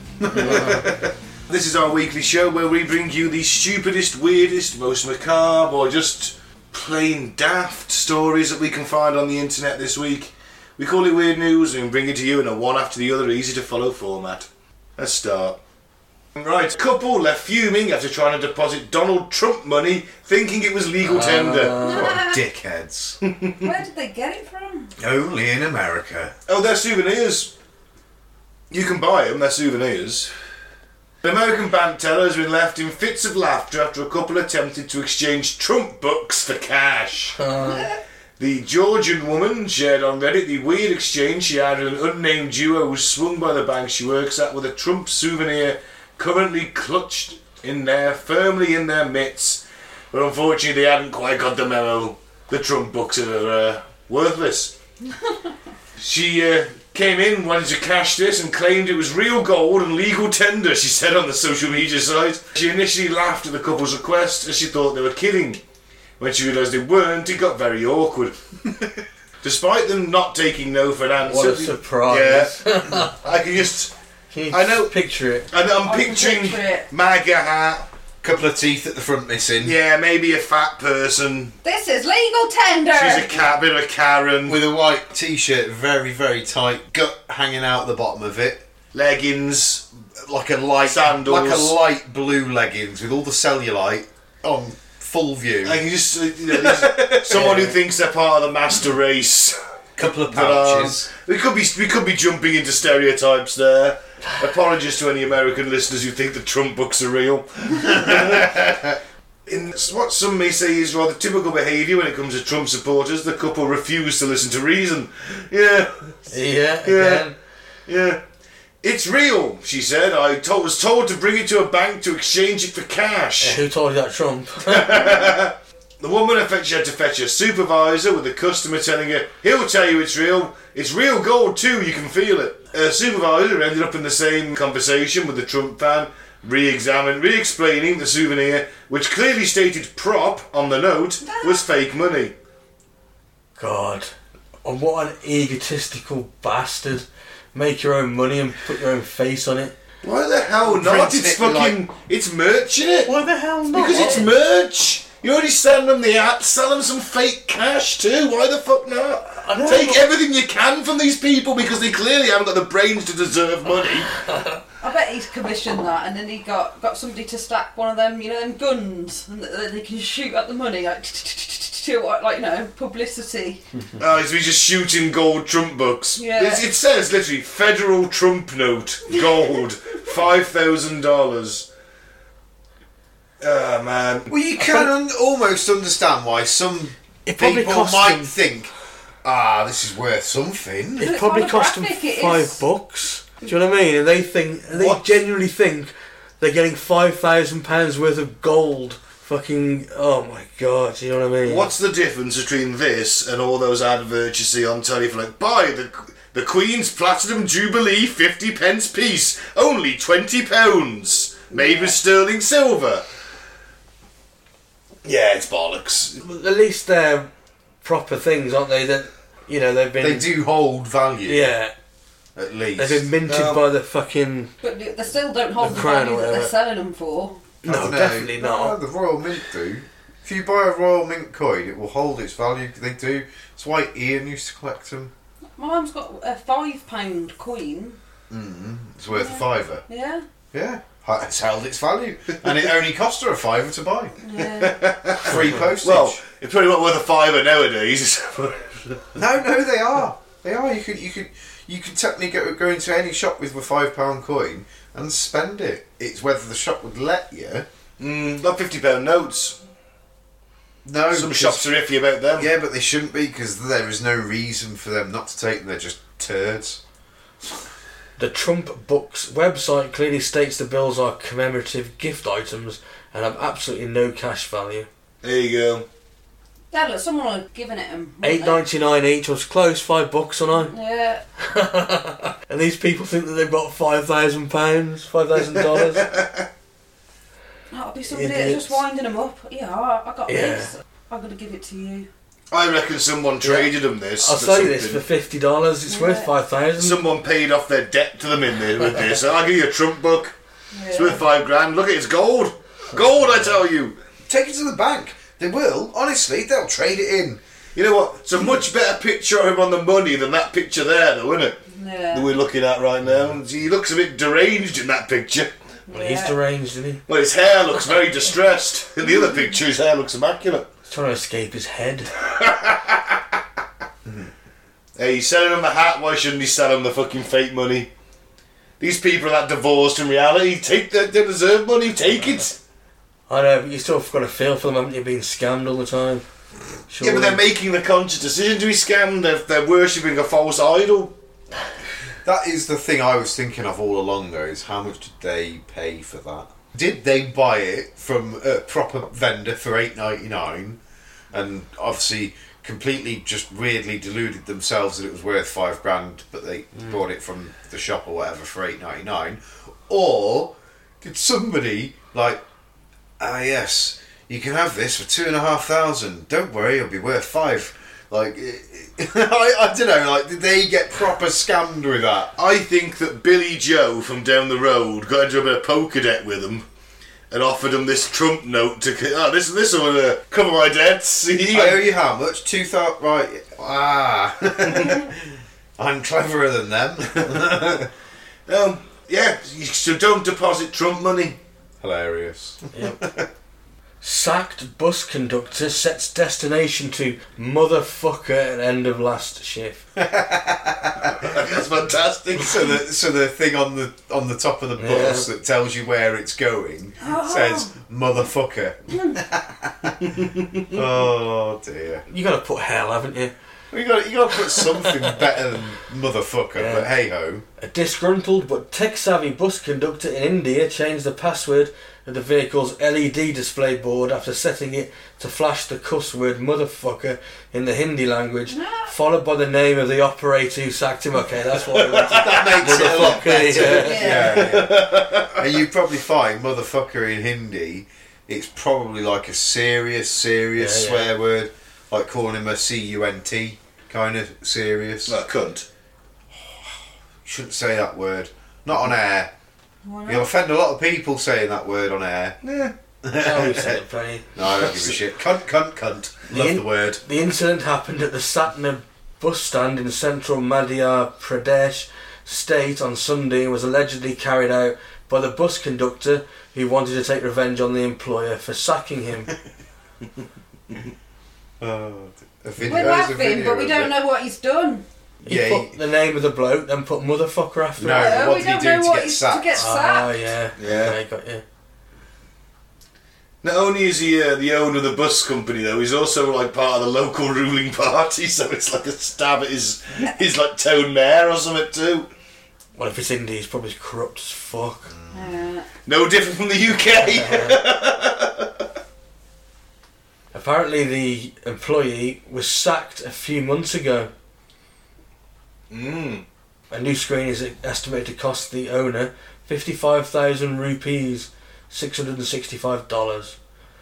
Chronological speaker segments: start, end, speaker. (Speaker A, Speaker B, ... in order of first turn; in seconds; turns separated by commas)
Speaker A: 0.2-1.1, Speaker B: 0.3-0.9, Speaker C: 1.5-15.6, Speaker C: 16.4-21.8, Speaker B: 21.0-22.2, Speaker D: 21.8-22.4, Speaker A: 21.8-23.2, Speaker C: 23.2-23.7, Speaker D: 23.6-24.9, Speaker A: 25.0-26.3, Speaker C: 26.5-27.5, Speaker C: 28.7-30.3, Speaker C: 31.2-37.4, Speaker B: 37.4-37.9, Speaker C: 38.4-54.7, Speaker D: 55.1-55.5, Speaker C: 56.0-65.6, Speaker C: 66.2-68.4, Speaker C: 69.4-73.9, Speaker B: 71.2-73.2, Speaker B: 74.3-75.5, Speaker C: 74.5-74.9, Speaker C: 75.5-77.9, Speaker D: 75.8-76.9, Speaker A: 78.2-79.8, Speaker C: 79.6-81.6, Speaker D: 81.6-83.5, Speaker C: 82.9-84.6, Speaker A: 84.5-88.7, Speaker C: 88.9-89.9, Speaker A: 90.2-95.8, Speaker C: 90.8-91.8, Speaker C: 95.6-108.8, Speaker A: 96.5-97.7, Speaker B: 97.3-97.8, Speaker A: 100.0-101.1, Speaker A: 107.8-109.0, Speaker C: 109.5-116.3, Speaker B: 116.3-117.3, Speaker C: 116.8-117.3, Speaker C: 117.9-118.2, Speaker C: 118.8-123.6, Speaker B: 123.4-125.2, Speaker C: 124.7-142.3, Speaker D: 141.2-141.7, Speaker B: 143.6-144.1, Speaker B: 144.6-149.8, Speaker C: 150.0-153.1, Speaker A: 150.6-151.8, Speaker A: 153.1-154.2, Speaker B: 153.1-154.3, Speaker C: 153.7-164.1, Speaker B: 159.4-160.1, Speaker D: 164.8-173.6, Speaker C: 174.0-181.7, Speaker D: 176.2-176.7, Speaker C: 183.4-184.3, Speaker A: 184.3-188.7, Speaker B: 184.6-184.9, Speaker B: 187.3-188.3, Speaker A: 189.2-191.1, Speaker B: 191.0-201.7, Speaker D: 191.0-192.6, Speaker C: 194.7-195.0, Speaker C: 201.4-213.0, Speaker D: 211.5-212.0, Speaker C: 215.0-216.2, Speaker B: 216.2-217.3, Speaker B: 217.8-220.3, Speaker A: 220.0-221.5, Speaker B: 221.3-221.7, Speaker A: 222.4-223.1, Speaker B: 222.8-224.5, Speaker C: 223.3-223.6, Speaker D: 224.6-227.5, Speaker B: 225.6-226.5, Speaker B: 227.6-228.8, Speaker A: 227.6-235.1, Speaker D: 235.6-238.0, Speaker A: 238.3-239.8, Speaker D: 239.1-240.2, Speaker A: 240.5-244.2, Speaker D: 244.2-244.8, Speaker C: 244.4-249.0, Speaker A: 245.2-246.2, Speaker B: 245.3-245.6, Speaker A: 249.2-257.7, Speaker C: 258.0-259.6, Speaker A: 260.9-261.7, Speaker C: 261.1-262.5, Speaker A: 262.4-266.8, Speaker B: 268.2-274.9, Speaker C: 275.2-275.9, Speaker D: 276.7-278.6, Speaker B: 278.2-280.7, Speaker D: 280.5-281.2, Speaker B: 281.4-286.1, Speaker C: 285.4-286.5, Speaker D: 287.7-292.1, Speaker B: 288.1-288.8, Speaker B: 290.3-290.7, Speaker C: 292.5-295.0, Speaker B: 293.4-297.0, Speaker D: 295.9-296.3, Speaker C: 296.8-300.3, Speaker D: 300.7-301.2, Speaker C: 300.9-304.0, Speaker A: 304.3-307.4, Speaker C: 307.8-311.6, Speaker D: 311.7-312.4, Speaker C: 312.1-315.5, Speaker D: 315.9-316.4, Speaker B: 315.9-317.0, Speaker C: 317.1-320.7, Speaker D: 319.1-319.4, Speaker B: 320.9-322.1, Speaker C: 322.2-323.2, Speaker A: 324.1-324.3, Speaker C: 325.0-327.9, Speaker C: 328.8-332.6, Speaker B: 333.3-336.2, Speaker B: 336.9-337.4, Speaker C: 337.0-341.1, Speaker A: 342.2-350.8, Speaker A: 351.3-362.4, Speaker A: 363.2-372.4, Speaker C: 372.4-376.6, Speaker C: 377.3-381.8, Speaker A: 381.5-387.9, Speaker C: 384.7-385.0, Speaker C: 388.5-391.4, Speaker A: 391.8-393.3, Speaker B: 392.7-393.0, Speaker B: 394.0-399.8, Speaker A: 400.0-401.3, Speaker C: 401.1-402.7, Speaker A: 402.4-410.1, Speaker B: 404.8-405.3, Speaker D: 407.0-407.7, Speaker C: 410.0-410.7, Speaker A: 410.7-412.0, Speaker B: 412.1-413.3, Speaker A: 413.7-417.4, Speaker B: 416.6-416.9, Speaker B: 417.6-434.3, Speaker D: 428.5-428.9, Speaker C: 431.7-433.1, Speaker A: 432.1-445.2, Speaker D: 433.6-434.6, Speaker C: 434.1-435.5, Speaker B: 440.6-441.1, Speaker C: 445.1-445.7, Speaker A: 446.3-449.3, Speaker D: 449.9-450.3, Speaker A: 450.1-452.4, Speaker C: 452.4-452.7, Speaker A: 453.0-453.8, Speaker B: 453.1-454.3, Speaker A: 454.4-457.0, Speaker C: 454.5-455.0, Speaker B: 456.3-469.3, Speaker A: 471.6-473.9, Speaker D: 472.7-474.9, Speaker A: 475.2-475.8, Speaker B: 475.3-478.3, Speaker A: 477.8-479.7, Speaker D: 477.9-480.3, Speaker B: 479.6-481.4, Speaker C: 480.6-481.0, Speaker C: 483.4-492.1, Speaker B: 492.8-494.9, Speaker A: 494.9-495.3, Speaker D: 495.1-495.7, Speaker C: 495.9-498.6, Speaker B: 497.2-497.5, Speaker B: 500.3-504.1, Speaker C: 505.7-506.2, Speaker B: 506.7-513.4